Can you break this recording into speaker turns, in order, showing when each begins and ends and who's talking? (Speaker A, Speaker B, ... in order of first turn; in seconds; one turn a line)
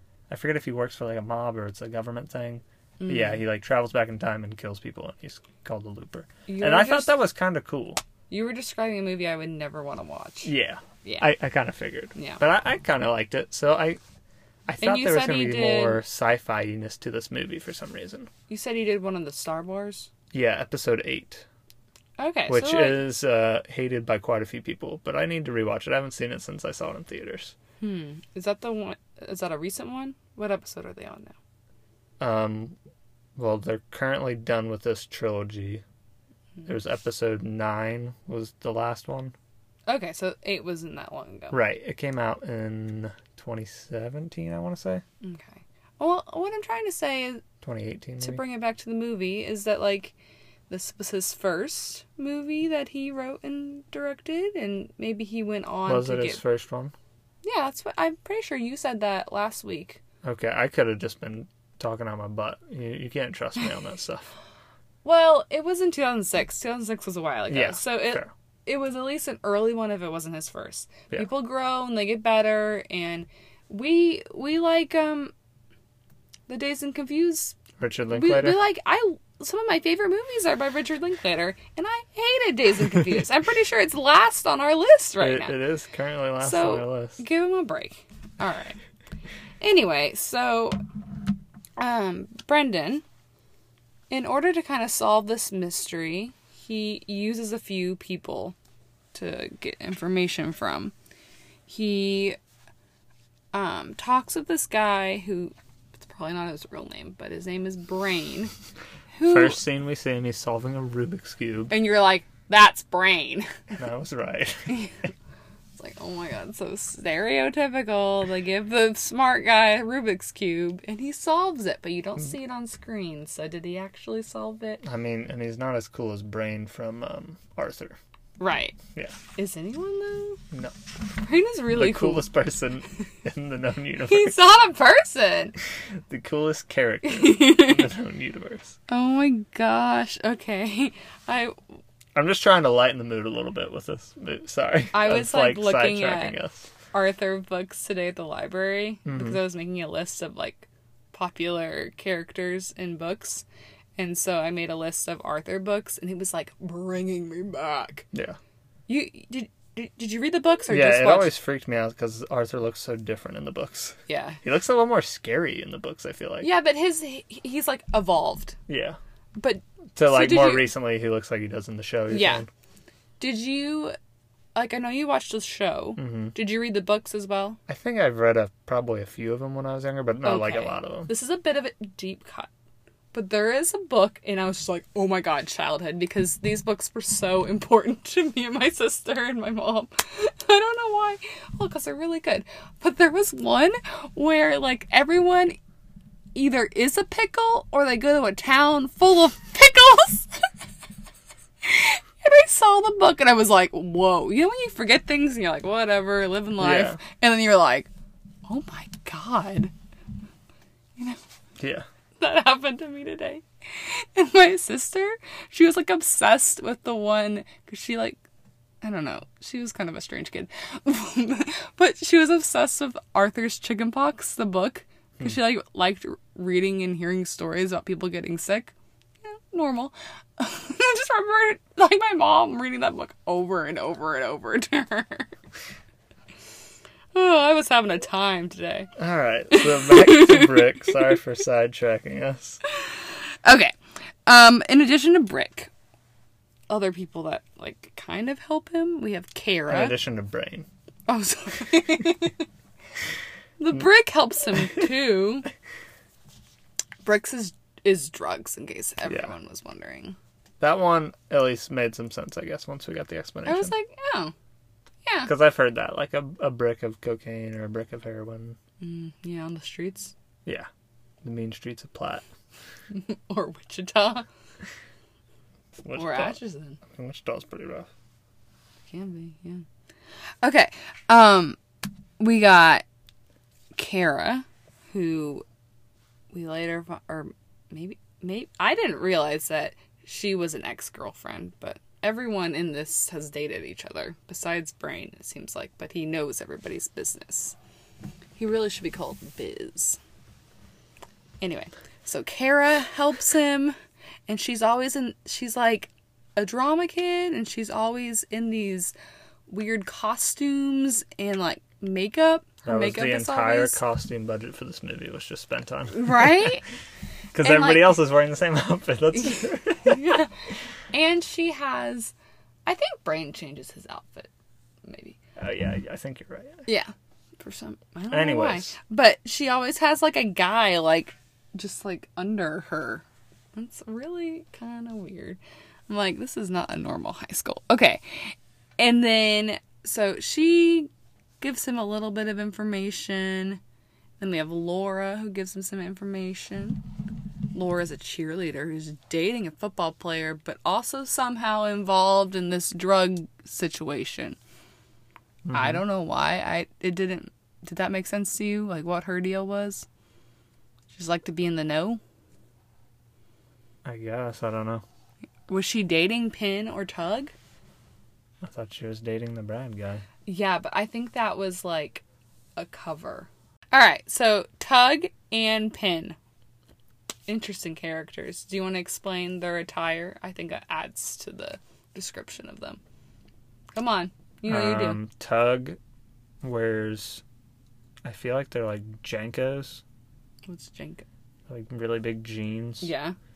Speaker A: 0.3-8.0
Speaker B: 3.0-3.4
Speaker B: 6.5-7.2
Speaker B: 8.3-10.5
Speaker A: 10.4-14.0
Speaker B: 11.0-11.3
Speaker B: 12.1-12.4
Speaker A: 14.7-18.3
Speaker B: 14.8-16.0
Speaker B: 18.5-20.1
Speaker A: 20.3-21.4
Speaker B: 22.2-23.0
Speaker A: 22.5-27.5
Speaker B: 27.8-31.4
Speaker A: 32.2-32.8
Speaker A: 33.4-35.8
Speaker A: 36.6-39.4
Speaker B: 39.9-41.6
Speaker A: 41.5-45.0
Speaker B: 45.2-47.4
Speaker A: 47.6-48.4
Speaker B: 48.2-50.1
Speaker B: 50.7-56.4
Speaker A: 55.9-56.9
Speaker B: 57.4-60.0
Speaker A: 60.2-64.3
Speaker B: 65.0-75.3
Speaker A: 67.5-68.3
Speaker B: 76.5-77.6
Speaker A: 77.8-78.6
Speaker B: 78.1-85.6
Speaker A: 85.2-87.2
Speaker B: 86.4-88.8
Speaker B: 89.6-90.8
Speaker B: 91.8-93.0
Speaker B: 94.1-98.5
Speaker B: 99.1-100.9
Speaker B: 101.7-102.4
Speaker B: 103.5-108.5
Speaker B: 109.1-109.6
Speaker A: 109.2-111.7
Speaker B: 111.7-113.6
Speaker A: 113.8-114.8
Speaker B: 114.7-114.9
Speaker B: 115.8-124.8
Speaker A: 124.8-128.0
Speaker B: 128.4-128.8
Speaker B: 129.4-130.4
Speaker B: 131.1-132.3
Speaker A: 131.7-134.4
Speaker B: 134.0-135.6
Speaker A: 136.1-138.8
Speaker B: 137.1-137.9
Speaker B: 138.9-141.6
Speaker A: 142.1-146.7
Speaker B: 144.9-146.4
Speaker B: 146.9-153.4
Speaker A: 149.1-149.4
Speaker B: 154.0-158.1
Speaker A: 158.1-158.4
Speaker B: 158.9-161.3
Speaker A: 160.7-166.5
Speaker B: 164.1-164.4
Speaker B: 166.4-168.6
Speaker A: 168.7-169.0
Speaker B: 169.4-170.7
Speaker A: 169.9-172.5
Speaker B: 172.1-172.4
Speaker B: 173.2-173.9
Speaker B: 174.5-177.6
Speaker A: 176.0-176.3
Speaker A: 177.7-181.1
Speaker B: 180.2-182.5
Speaker B: 183.1-195.6
Speaker B: 196.3-200.3
Speaker B: 201.6-207.9
Speaker A: 206.6-207.0
Speaker B: 208.4-209.7
Speaker A: 211.6-211.9
Speaker B: 212.2-218.2
Speaker B: 218.8-235.3
Speaker B: 237.1-238.9
Speaker A: 239.0-242.6
Speaker B: 239.5-241.1
Speaker B: 243.4-245.7
Speaker B: 246.7-250.0
Speaker A: 249.7-250.7
Speaker B: 251.1-252.4
Speaker B: 253.6-255.5
Speaker B: 257.0-260.2
Speaker A: 260.6-263.7
Speaker B: 263.4-264.3
Speaker B: 265.1-265.3
Speaker A: 265.2-268.6
Speaker B: 268.8-270.1
Speaker A: 271.2-272.2
Speaker B: 272.9-274.2
Speaker A: 275.8-277.9
Speaker B: 275.9-276.8
Speaker B: 278.9-279.6
Speaker B: 280.4-281.6
Speaker B: 282.2-282.8
Speaker B: 283.8-285.4
Speaker B: 286.3-297.6
Speaker B: 298.4-300.0
Speaker B: 301.4-303.8
Speaker B: 304.3-308.9
Speaker B: 309.5-313.8
Speaker A: 312.6-316.6
Speaker B: 315.9-316.6
Speaker A: 317.3-320.2
Speaker B: 317.4-318.0
Speaker B: 319.1-320.3
Speaker B: 320.9-322.1
Speaker B: 322.6-324.3
Speaker B: 324.9-325.2
Speaker A: 325.4-326.6
Speaker B: 326.6-340.9
Speaker A: 328.1-328.7
Speaker B: 341.4-343.6
Speaker B: 344.2-346.8
Speaker B: 347.5-354.4
Speaker A: 355.4-355.8
Speaker B: 355.5-359.9
Speaker B: 360.9-362.0
Speaker A: 363.9-364.8
Speaker B: 365.5-367.3
Speaker A: 368.4-370.0
Speaker B: 370.2-372.0
Speaker B: 372.6-376.2
Speaker B: 377.3-382.8
Speaker B: 383.8-385.0
Speaker A: 384.4-385.8
Speaker A: 386.4-387.2
Speaker A: 388.0-389.8
Speaker B: 390.5-391.0
Speaker A: 391.5-392.9
Speaker B: 392.8-393.1